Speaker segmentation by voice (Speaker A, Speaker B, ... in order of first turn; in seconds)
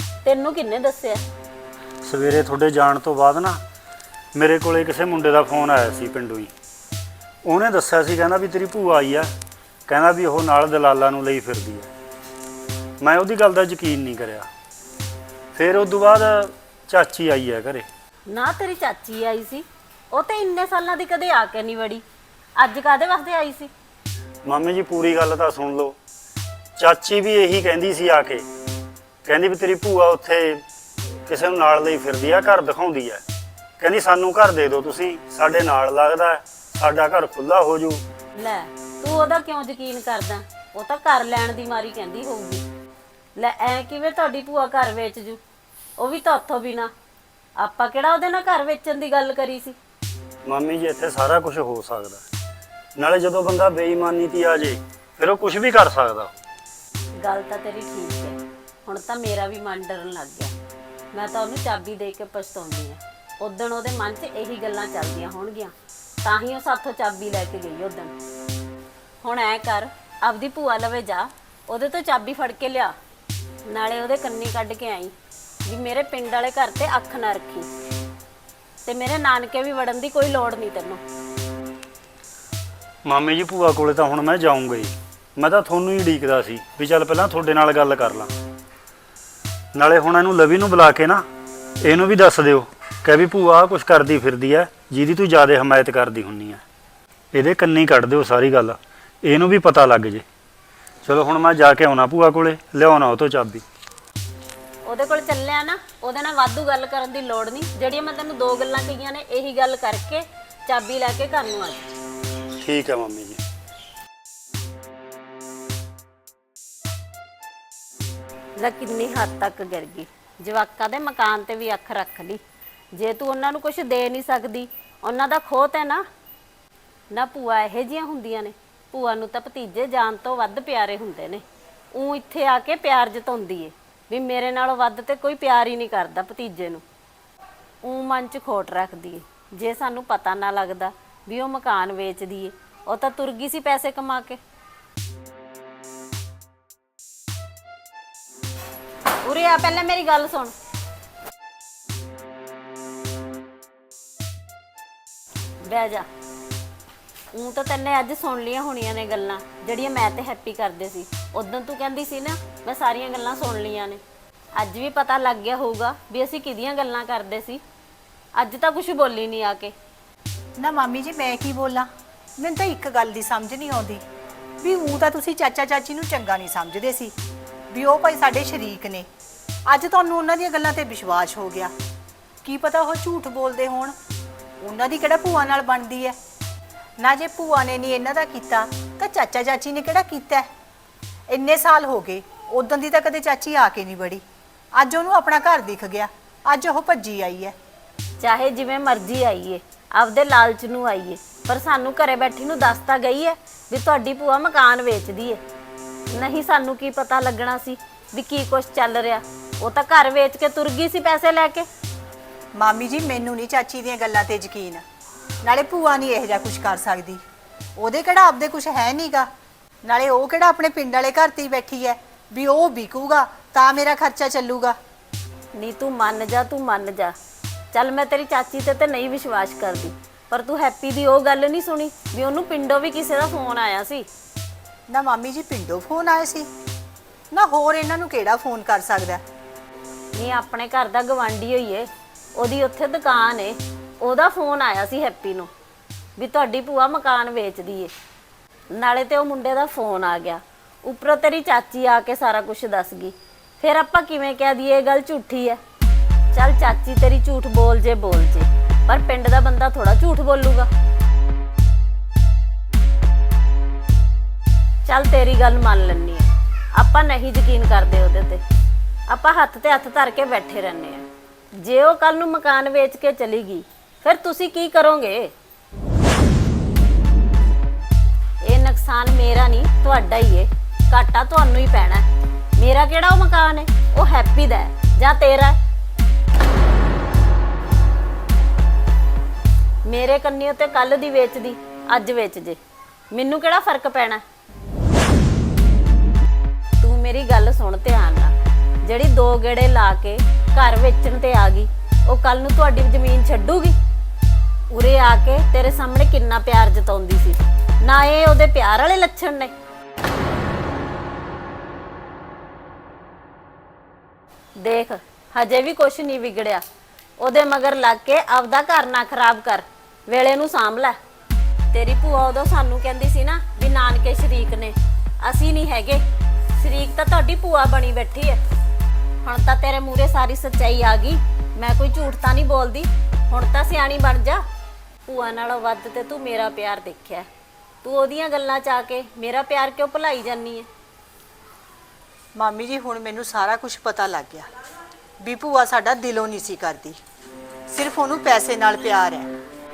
Speaker A: 0.2-1.2, 18.3-22.0, 22.6-23.7, 38.4-42.6, 43.4-45.4, 46.0-46.9, 47.6-49.8, 57.2-60.5, 61.1-65.7, 66.2-68.1, 69.2-72.9, 73.7-75.1, 75.7-77.7, 78.8-81.0, 104.8-111.9, 118.6-122.4, 123.0-126.0, 127.1-136.8, 137.8-144.4, 149.2-150.5, 155.6-156.1, 157.3-164.0, 164.6-167.6, 168.4-169.7, 198.2-205.4, 206.1-211.7, 225.5-227.1, 227.7-234.1, 240.2-245.5, 246.2-247.9, 248.7-255.6, 256.3-260.7, 264.9-268.4, 269.1-271.0, 271.6-275.3, 278.4-282.1, 282.6-285.6, 289.9-292.6, 293.1-294.2, 296.8-298.3, 298.8-303.8, 304.7-309.5, 314.6-316.6, 317.2-320.9, 321.7-326.0, 326.6-328.4, 329.2-334.4, 335.1-337.3, 337.8-340.7
Speaker B: 2.0-3.6, 4.3-6.5, 7.5-9.3, 9.9-11.9, 13.0-14.5, 15.5-17.9, 24.4-26.0, 26.8-28.4, 29.2-30.6, 31.3-33.2, 33.8-38.0, 50.5-52.2, 53.0-56.3, 83.1-88.3, 89.8-91.2, 91.8-96.6, 97.3-100.2, 101.0-103.6, 112.6-113.4
Speaker C: 170.6-171.9, 172.4-174.0, 174.6-177.1, 177.7-179.1, 179.7-181.7, 182.4-183.9, 184.6-186.2, 187.0-190.5, 191.3-194.2, 194.8-197.5, 212.6-214.8, 215.4-217.2, 217.8-219.3, 219.8-224.8, 234.9-236.5, 237.3-239.2, 342.4-344.5, 345.2-347.0, 347.7-349.3